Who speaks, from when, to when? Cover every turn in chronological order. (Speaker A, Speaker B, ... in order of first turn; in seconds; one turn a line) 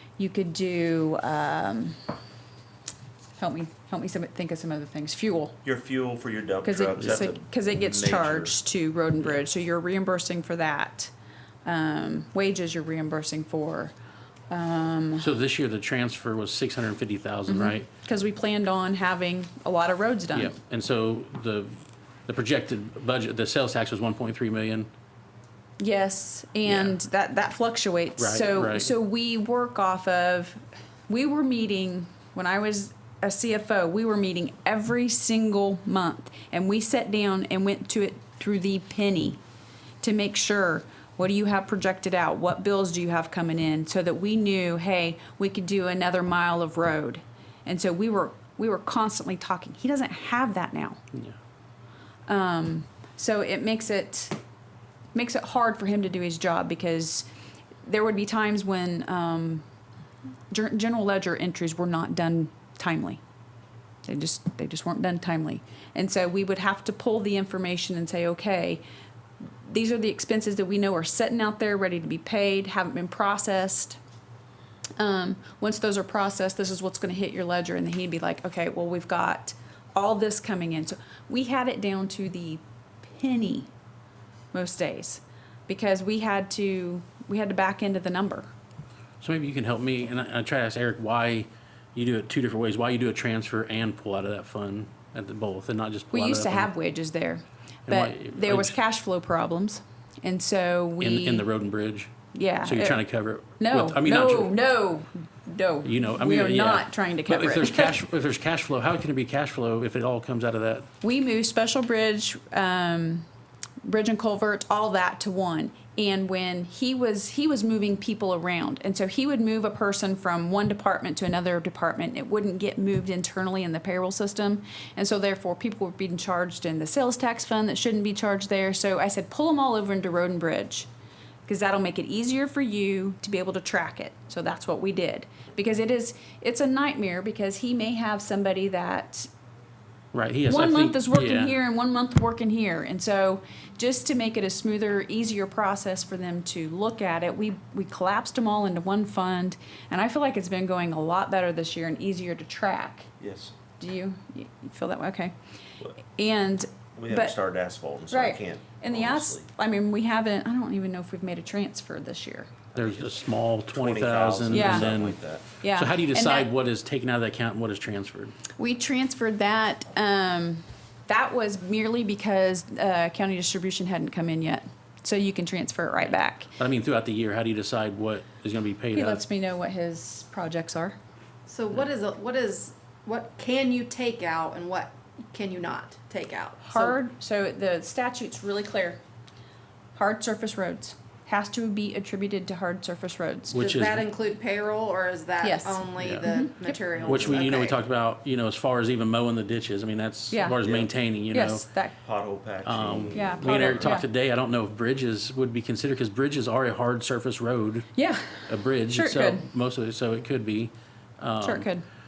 Speaker A: 0.2-2.0
Speaker A: 3.4-5.5
Speaker B: 5.6-8.6
Speaker A: 6.6-11.1
Speaker A: 11.6-13.9
Speaker A: 14.5-15.3
Speaker C: 15.2-17.9
Speaker A: 17.5-20.5
Speaker C: 20.3-24.9
Speaker A: 25.8-39.4
Speaker C: 26.6-26.9
Speaker C: 28.2-28.9
Speaker A: 40.0-51.0
Speaker A: 52.3-54.4
Speaker A: 55.1-57.3
Speaker A: 57.8-59.6
Speaker A: 60.5-63.2
Speaker A: 64.0-68.8
Speaker A: 69.7-74.0
Speaker A: 75.0-83.7
Speaker A: 84.5-88.5
Speaker C: 89.2-96.7
Speaker A: 96.1-101.5
Speaker C: 97.9-98.8
Speaker C: 101.0-102.1
Speaker A: 102.3-103.0
Speaker C: 102.6-104.5
Speaker A: 103.6-108.0
Speaker C: 105.8-110.9
Speaker A: 111.0-113.3
Speaker A: 113.8-130.9
Speaker A: 131.4-139.3
Speaker C: 140.1-141.5
Speaker A: 140.5-153.1
Speaker B: 153.2-153.5
Speaker A: 153.8-155.3
Speaker A: 156.0-157.3
Speaker B: 156.9-159.5
Speaker A: 158.1-162.5
Speaker B: 162.7-163.1
Speaker C: 162.7-168.3
Speaker B: 163.7-165.4
Speaker A: 164.5-164.9
Speaker A: 165.6-166.5
Speaker A: 168.6-176.5
Speaker C: 176.6-179.2
Speaker A: 178.9-180.9
Speaker D: 181.5-187.0
Speaker A: 186.7-189.0
Speaker A: 189.9-193.6
Speaker C: 193.5-194.1
Speaker D: 193.6-197.8
Speaker A: 195.4-196.7
Speaker C: 196.0-196.3
Speaker B: 196.9-197.5
Speaker C: 197.0-201.7
Speaker A: 200.3-200.6
Speaker B: 200.6-200.9
Speaker A: 201.3-201.9
Speaker B: 202.0-203.9
Speaker C: 202.6-207.9
Speaker A: 203.1-204.1
Speaker A: 207.9-209.4
Speaker C: 208.5-211.7
Speaker A: 211.4-211.8